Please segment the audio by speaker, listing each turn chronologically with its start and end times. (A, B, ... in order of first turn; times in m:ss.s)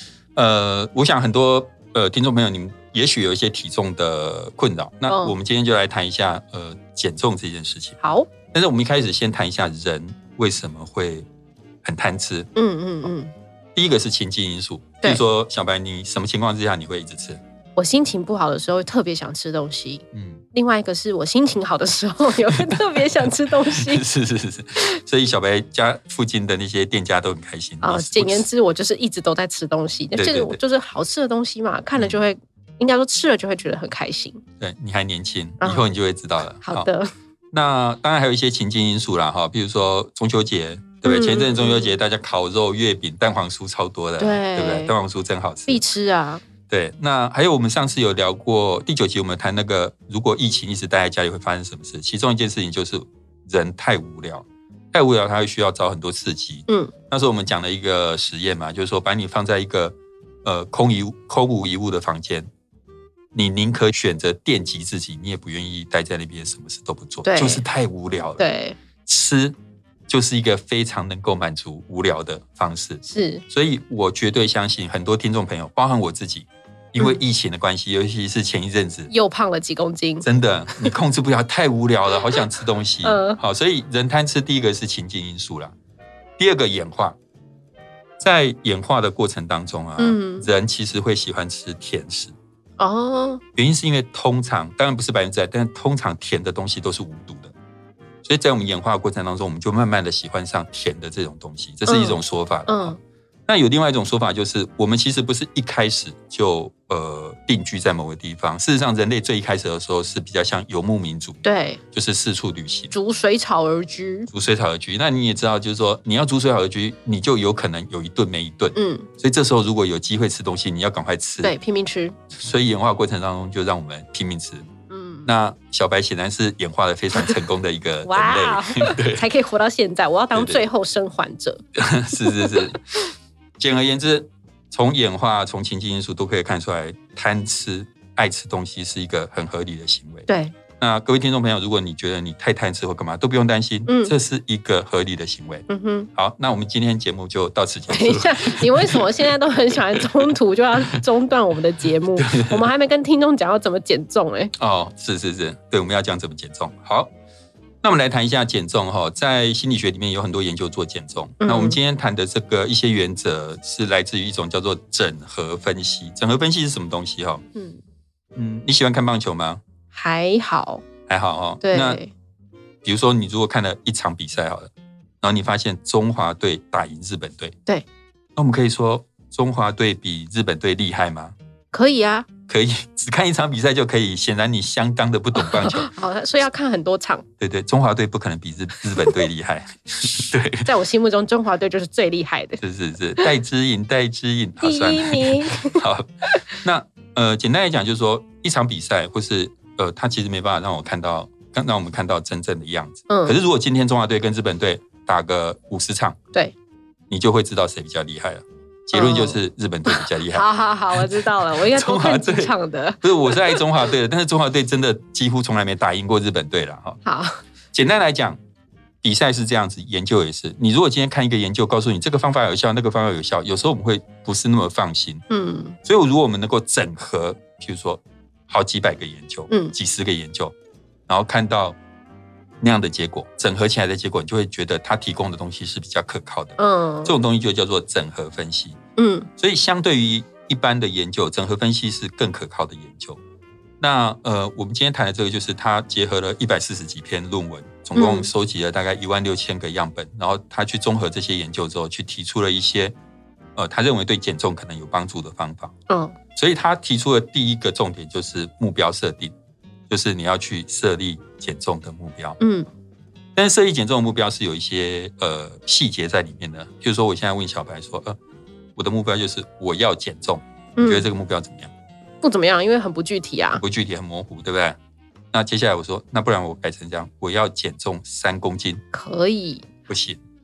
0:00.3-0:08.0 A
0:05.1-0:05.4 B
0:08.0-0:08.3 B
0:08.5-0:11.3 A
0:11.8-0:12.5 A
0:12.5-0:13.3 B
0:13.7-0:17.4 A
0:17.8-0:24.0 B
0:20.1-0:20.4 A
0:22.5-0:28.5 A
0:27.8-0:34.4 B
0:30.2-0:30.6 A
0:34.6-0:36.9 A
0:36.6-0:37.1 B
0:37.5-0:45.8 A
0:41.0-0:42.0 B
0:44.2-0:44.9 B
0:45.7-0:46.4 B
0:46.7-1:02.5 A
1:03.3-1:08.4 A
1:07.2-1:07.6 B
1:08.4-1:08.8 B
1:09.0-1:09.6 A
1:10.1-1:19.1 A
1:13.0-1:13.4 B
1:19.1-1:20.3 B
1:20.2-1:25.7 A
1:23.0-1:23.4 B
1:26.4-1:27.2 A
1:28.2-1:32.3 A
1:30.0-1:30.5 B
1:32.8-1:33.4 B
1:33.6-1:37.5 A
1:38.2-1:42.9 A
1:41.9-1:43.0 B
1:43.5-1:51.4 A
1:51.4-1:51.8 B
1:51.9-1:52.9 A
1:52.9-1:54.3 B
1:54.3-2:01.5 A
1:58.7-1:59.1 B
2:01.4-2:02.2 B
2:02.3-2:04.6 A
2:04.9-2:05.3 B
2:05.2-2:09.2 A
2:08.0-2:11.6 B
2:10.3-2:10.6 A
2:11.8-2:12.8 A
2:12.2-2:13.0 B
2:13.6-2:30.3 A
2:20.3-2:20.5 B
2:23.9-2:24.1 B
2:25.7-2:26.1 B
2:27.9-2:34.5 B
2:32.2-2:32.7 A
2:34.6-2:37.1 A
2:37.8-2:47.4 A
2:41.4-2:41.8 B
2:48.3-2:49.6 A
2:49.9-2:50.8 B
2:51.1-2:52.0 A
2:51.6-2:52.1 B
2:52.8-2:57.5 A
2:58.4-3:01.3 A
3:01.7-3:02.3 B
3:02.5-3:05.9 A
3:05.4-3:07.2 B
3:07.4-3:10.7 A
3:10.6-3:12.6 B
3:12.6-3:26.2 A
3:14.6-3:16.4 B
3:23.1-3:23.4 B
3:27.1-3:37.0 A
3:28.9-3:33.6 B
3:37.0-3:37.4 B
3:37.7-3:38.4 A
3:39.0-3:45.2 A
3:45.3-3:45.8 B
3:45.8-3:50.5 A
3:51.1-3:51.8 A
3:52.6-3:58.8 A
3:56.6-3:57.1 B
3:59.0-3:59.3 B
3:59.4-4:03.2 A
4:03.8-4:12.9 A
4:07.9-4:08.3 B
4:13.6-4:15.7 A
4:15.9-4:16.1 B
4:16.4-4:19.3 A
4:19.9-4:22.4 A
4:22.4-4:22.7 B
4:23.3-4:28.2 A
4:28.8-4:31.7 A
4:30.8-4:31.1 B
4:32.2-4:33.6 B
4:33.6-4:34.8 A
4:35.3-4:38.8 A
4:38.9-4:39.7 B
4:39.9-4:40.2 A